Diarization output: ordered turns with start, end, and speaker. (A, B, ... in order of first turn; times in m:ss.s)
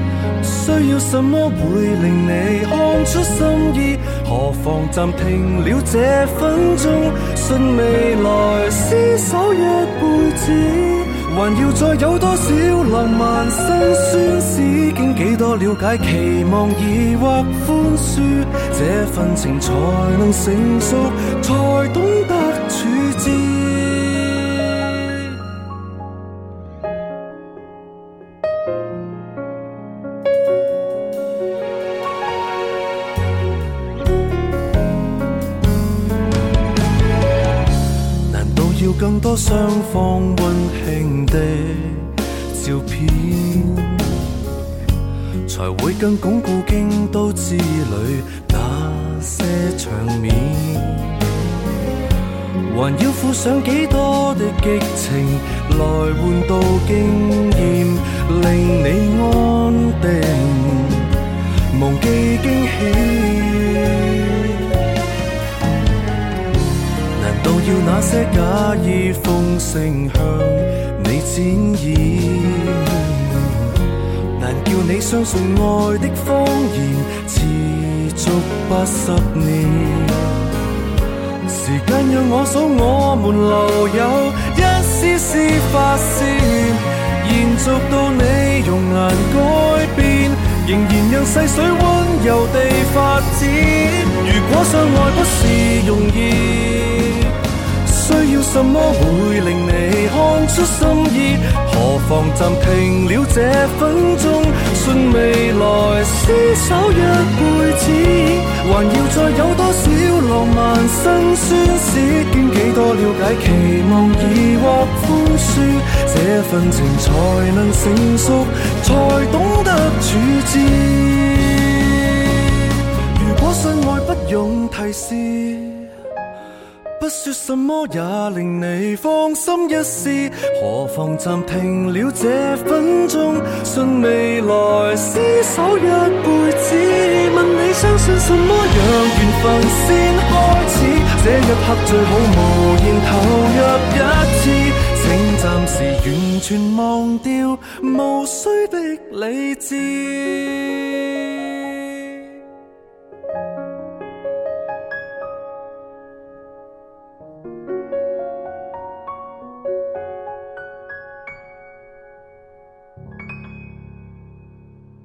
0:00.4-0:24.4 A
0:38.3-0:44.2 A
0:45.5-0:51.6 A
0:52.7-1:01.2 A
1:01.7-1:04.6 A
1:07.1-1:13.7 A
1:14.4-1:20.4 A
1:21.5-1:37.3 A
1:37.8-2:02.0 A
2:03.1-2:05.9 A
2:07.0-2:31.0 A